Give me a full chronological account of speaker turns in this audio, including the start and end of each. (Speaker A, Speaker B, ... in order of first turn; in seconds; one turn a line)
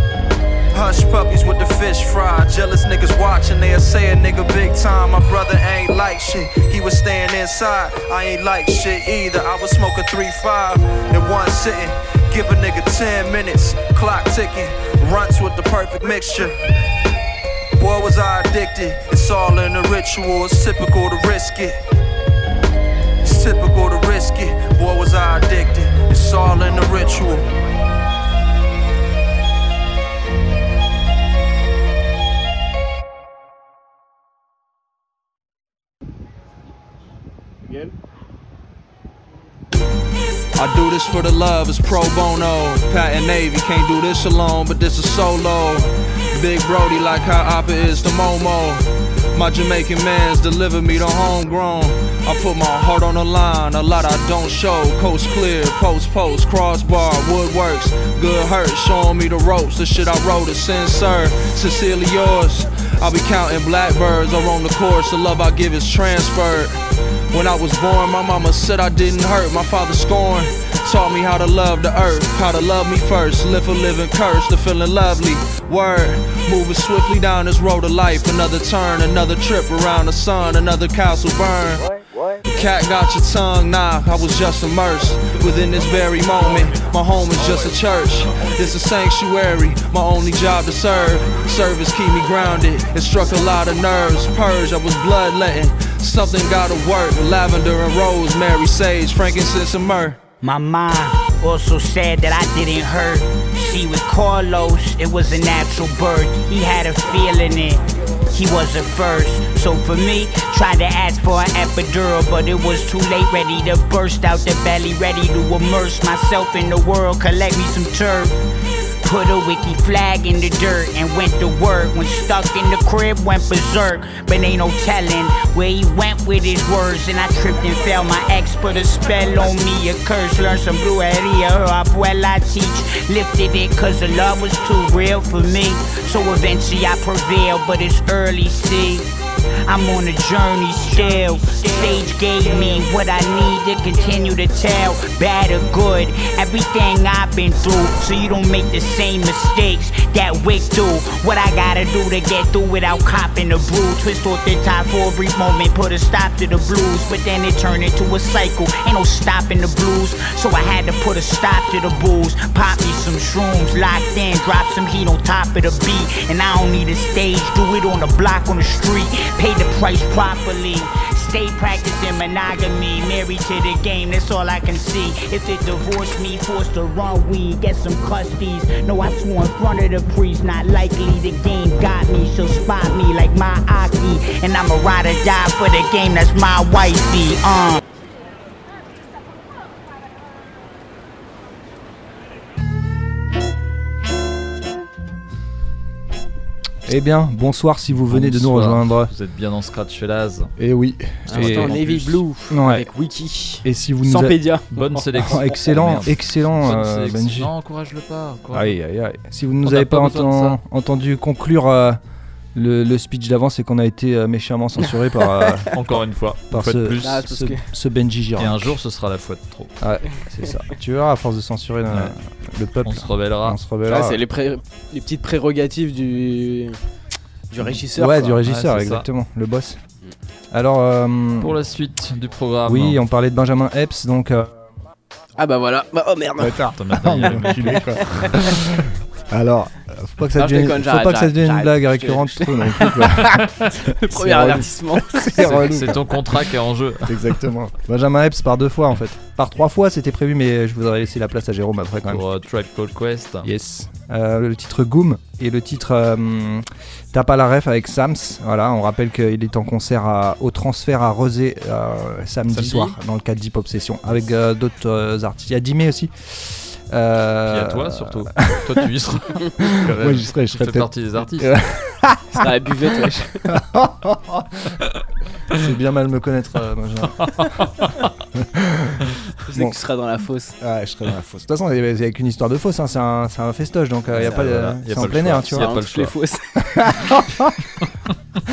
Speaker A: 0.7-16.6
Speaker A: 17.8-21.8
Speaker A: 23.2-27.5
Speaker B: 40.6-66.8
Speaker B: 67.3-81.8
Speaker B: 82.4-100.2
Speaker C: 100.4-118.3
Speaker C: 119.0-139.1
Speaker C: 139.7-187.8
Speaker D: 196.8-199.1
Speaker E: 198.1-200.5
Speaker D: 200.6-201.8
Speaker F: 201.3-204.6
Speaker E: 201.3-202.2
Speaker D: 202.5-202.8
Speaker D: 203.6-207.5
Speaker E: 204.7-208.8
Speaker D: 208.5-212.0
Speaker E: 209.6-210.6
Speaker D: 212.5-215.7
Speaker E: 215.7-217.3
Speaker D: 216.5-218.7
Speaker F: 217.0-217.6
Speaker E: 218.4-219.7
Speaker D: 219.8-224.2
Speaker E: 222.8-223.6
Speaker F: 223.9-226.8
Speaker F: 227.5-228.4
Speaker D: 227.6-229.8
Speaker E: 228.4-229.1
Speaker D: 230.5-231.5
Speaker E: 231.4-233.0
Speaker D: 232.7-234.6
Speaker F: 235.4-236.6
Speaker D: 236.4-238.6
Speaker E: 236.7-238.3
Speaker F: 237.2-237.8
Speaker D: 239.3-243.4
Speaker F: 240.3-245.6
Speaker D: 244.1-246.0
Speaker E: 245.4-247.5
Speaker D: 247.1-252.2
Speaker E: 252.1-253.5
Speaker D: 253.4-268.7
Speaker E: 262.5-262.9
Speaker E: 267.5-271.5
Speaker D: 269.8-272.4
Speaker F: 272.4-273.4
Speaker D: 273.5-274.8
Speaker D: 275.5-277.4
Speaker D: 278.4-279.8
Speaker F: 279.5-280.6
Speaker D: 280.6-285.7
Speaker E: 284.1-286.1
Speaker F: 284.2-284.4
Speaker F: 285.5-286.6
Speaker D: 286.8-287.5